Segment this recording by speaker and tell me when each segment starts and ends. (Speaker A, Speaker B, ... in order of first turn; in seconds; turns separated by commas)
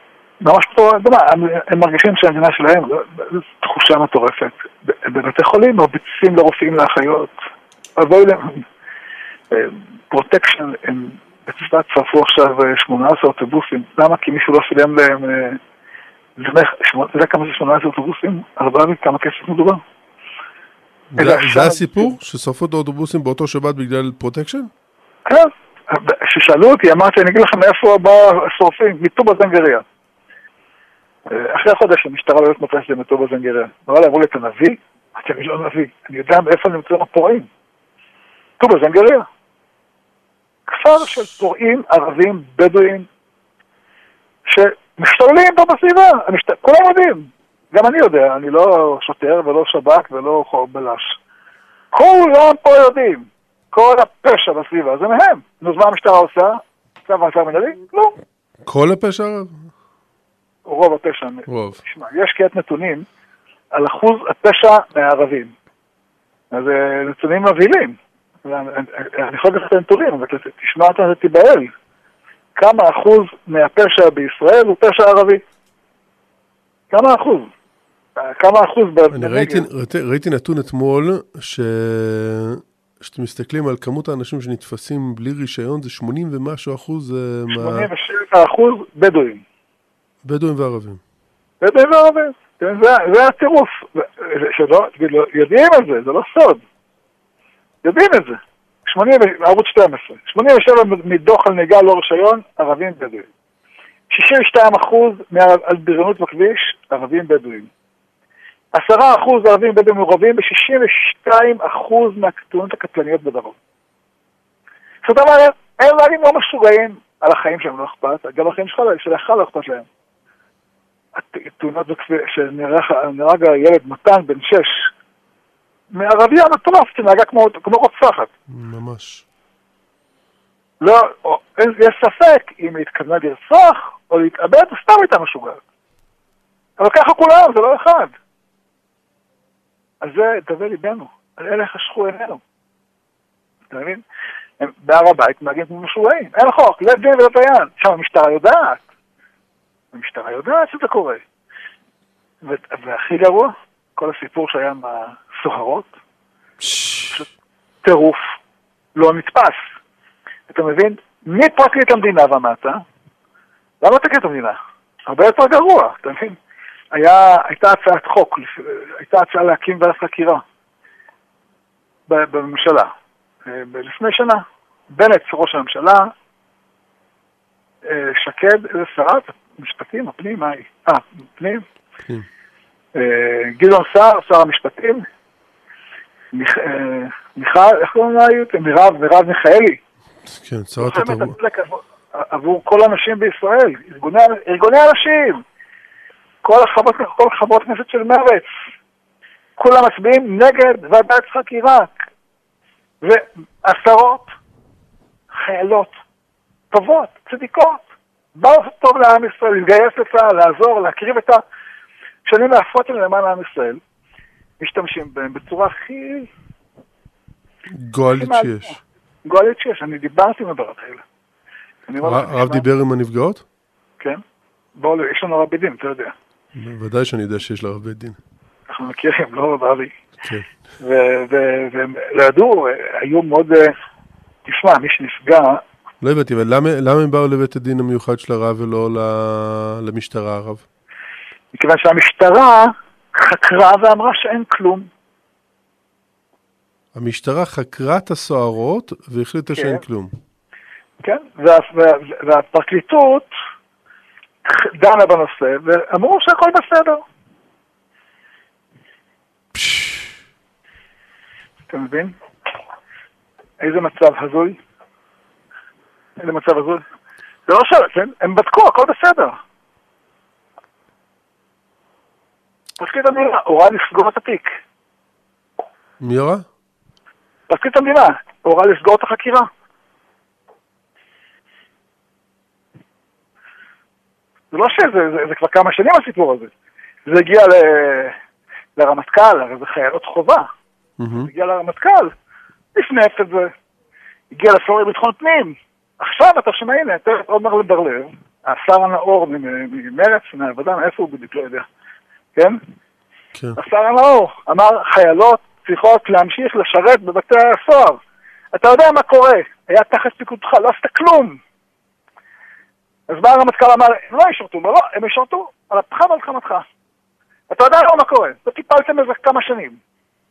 Speaker A: 0.4-7.3, Speaker A: 8.0-8.7, Speaker A: 9.5-15.6, Speaker A: 16.4-19.8, Speaker B: 21.1-24.7, Speaker A: 21.2-22.1, Speaker A: 25.3-29.9, Speaker A: 31.3-37.5, Speaker A: 38.6-39.3, Speaker A: 40.7-43.1, Speaker A: 44.5-51.2, Speaker A: 51.9-58.2, Speaker B: 58.6-59.6, Speaker A: 60.7-63.0, Speaker B: 61.5-61.8, Speaker A: 63.7-65.5, Speaker A: 66.5-71.7, Speaker A: 72.6-75.4, Speaker A: 76.9-77.5, Speaker A: 78.2-79.7, Speaker B: 79.1-87.9, Speaker A: 87.5-89.4, Speaker B: 90.2-91.0, Speaker A: 91.6-96.6, Speaker A: 97.8-103.3, Speaker A: 104.1-107.7, Speaker A: 108.7-113.6, Speaker A: 115.0-119.9, Speaker A: 121.2-124.9, Speaker A: 125.9-128.3, Speaker B: 128.5-129.2, Speaker A: 130.8-135.6, Speaker A: 136.8-138.1, Speaker A: 140.0-142.4, Speaker A: 143.7-144.0, Speaker A: 144.6-148.8, Speaker A: 149.9-151.2, Speaker A: 152.4-155.9, Speaker B: 156.6-157.2, Speaker A: 157.8-158.3, Speaker A: 158.9-159.6, Speaker A: 160.5-162.8, Speaker A: 163.8-166.4, Speaker A: 166.9-170.4, Speaker A: 172.1-172.9, Speaker A: 173.5-176.1, Speaker A: 177.8-181.7, Speaker A: 182.9-185.1, Speaker A: 186.3-189.8, Speaker B: 190.3-191.3, Speaker A: 190.8-195.4, Speaker A: 196.4-198.5, Speaker A: 199.6-202.0, Speaker A: 203.0-204.3, Speaker A: 205.3-205.9, Speaker A: 206.7-207.8, Speaker A: 208.4-211.4, Speaker A: 212.2-213.8, Speaker A: 214.6-216.3, Speaker B: 217.7-218.8, Speaker A: 218.2-218.7, Speaker A: 219.2-221.0, Speaker A: 221.9-222.7, Speaker B: 222.0-223.4, Speaker A: 224.8-226.1, Speaker B: 226.6-228.2, Speaker A: 228.7-229.9, Speaker B: 230.2-230.5, Speaker A: 230.8-233.7, Speaker A: 234.5-235.6, Speaker B: 236.0-240.6, Speaker A: 241.5-244.9, Speaker B: 246.9-250.1, Speaker A: 249.5-249.8, Speaker A: 251.0-253.3, Speaker A: 254.4-257.0, Speaker B: 259.5-260.1, Speaker A: 261.7-262.2, Speaker A: 263.6-264.6, Speaker A: 266.2-266.8, Speaker A: 267.5-269.4, Speaker A: 272.8-274.5, Speaker B: 276.0-276.4, Speaker A: 277.5-279.5, Speaker A: 284.5-286.5, Speaker A: 287.1-288.2, Speaker A: 288.8-290.5, Speaker B: 291.0-291.3, Speaker A: 291.1-292.1, Speaker A: 292.8-293.5, Speaker A: 294.3-301.6, Speaker A: 303.6-308.0, Speaker A: 308.5-311.4, Speaker A: 313.1-316.6, Speaker A: 317.5-319.8